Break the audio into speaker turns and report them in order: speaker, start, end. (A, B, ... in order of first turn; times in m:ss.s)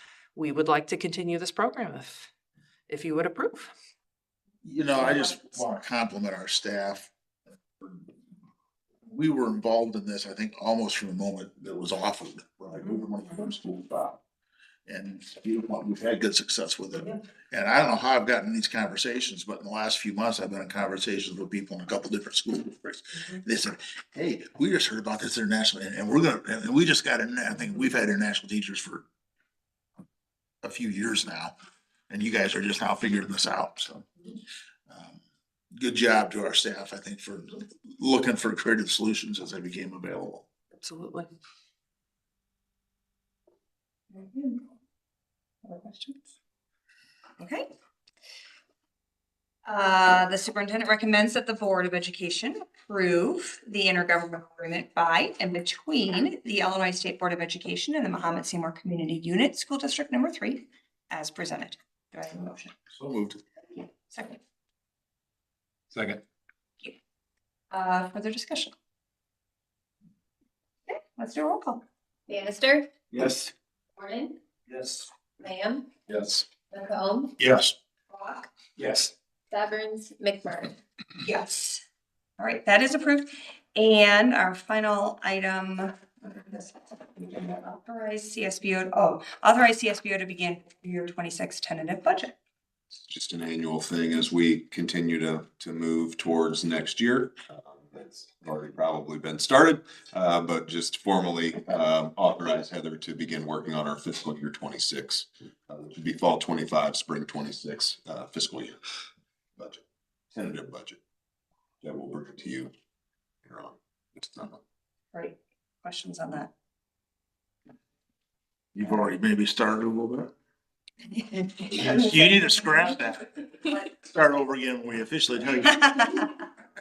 0:00.4-0:02.3 A
0:02.9-0:03.7 A
0:04.6-0:07.1 B
0:07.8-0:08.1 B
0:09.1-0:14.2 B
0:14.9-0:29.0 B
0:30.6-0:31.5 B
0:32.1-0:34.1 B
0:34.9-0:35.2 B
0:35.7-0:40.4 B
0:40.8-0:41.3 A
0:44.1-0:44.6 C
0:45.6-0:46.2 C
0:47.4-0:47.7 C
0:49.7-1:02.7 C
1:02.9-1:03.4 B
1:03.8-1:04.4 C
1:05.9-1:06.2 D
1:07.7-1:08.7 C
1:10.9-1:11.8 C
1:12.3-1:12.9 E
1:13.1-1:13.5 D
1:14.0-1:14.4 E
1:14.7-1:15.1 D
1:15.4-1:15.9 E
1:16.1-1:16.4 D
1:16.6-1:17.4 E
1:17.4-1:17.7 B
1:18.1-1:18.5 C
1:18.8-1:19.1 D
1:19.5-1:20.8 E
1:21.2-1:21.8 C
1:22.4-1:32.4 C
1:33.1-1:48.8 F
1:49.6-1:49.8 F
1:50.3-1:51.0 F
1:51.8-1:52.7 F
1:53.4-1:54.6 F
1:55.1-1:56.5 C
1:58.7-2:00.3 B
2:01.7-2:06.2 B